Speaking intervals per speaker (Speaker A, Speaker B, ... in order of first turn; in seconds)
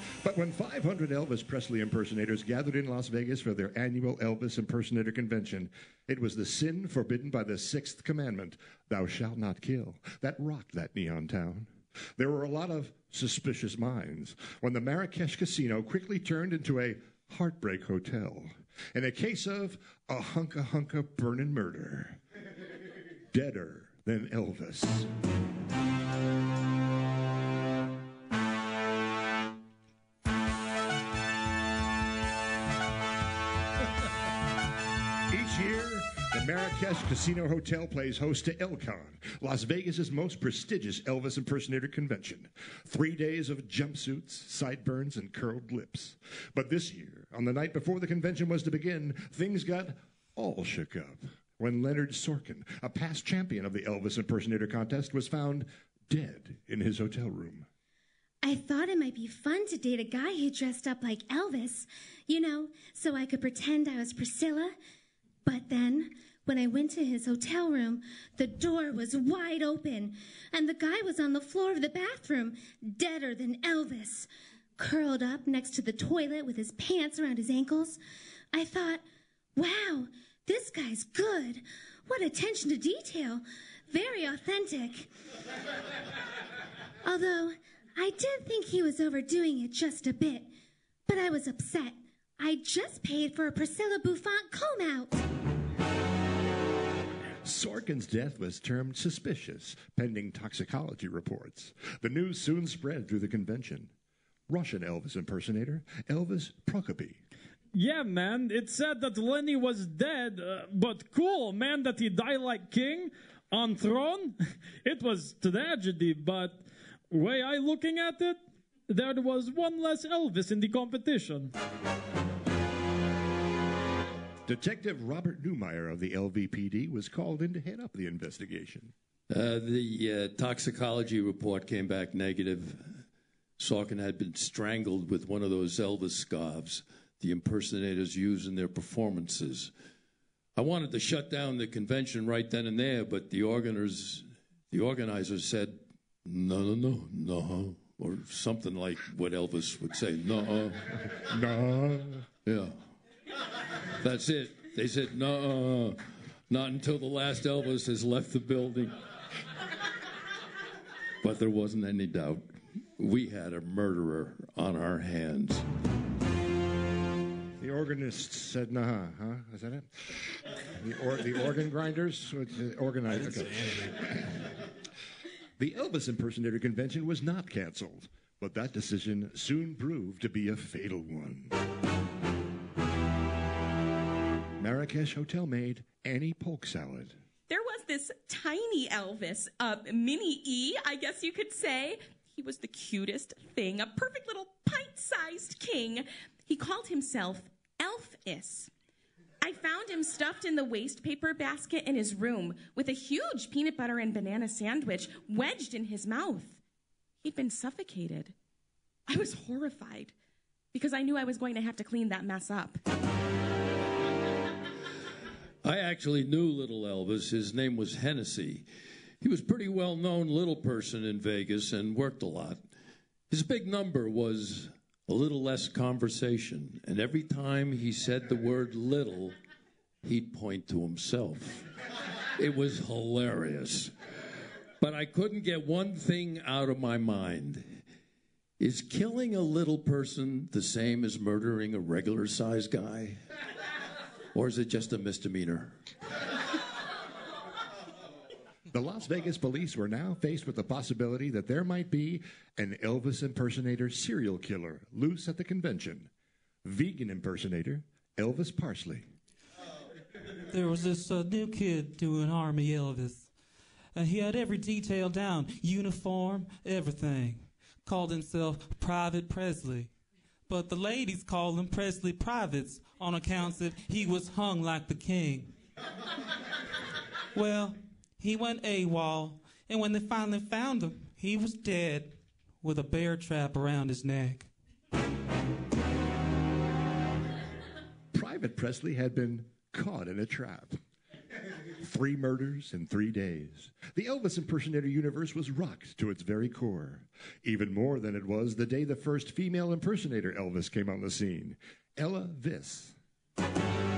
Speaker A: 0.2-22.2, 23.3-25.1, 35.3-57.7, 97.5-103.9, 104.5-107.2, 124.5-128.9, 151.2-152.3, 167.6-174.3, 175.6-181.6, 184.6-187.2, 248.7-256.1, 256.6-259.1, 288.1-290.8, 291.8-302.9
Speaker B: 58.4-64.8, 65.5-78.0, 78.5-79.0, 79.6-85.1, 87.0-90.5, 91.1-95.2
Speaker C: 107.7-121.5
Speaker D: 129.3-133.0, 133.6-139.7, 140.6-150.9, 152.4-152.8, 154.0-159.0, 161.2-165.6, 215.6-218.7, 219.2-222.7, 223.3-229.3, 230.0-231.7, 232.4-233.9, 234.8-237.8, 238.6-243.2, 244.3-245.8
Speaker E: 187.5-198.7, 199.4-206.6, 207.2-208.3, 209.1-210.1, 210.7-212.8
Speaker F: 260.5-263.3, 263.9-269.9, 270.5-275.5, 277.3-284.5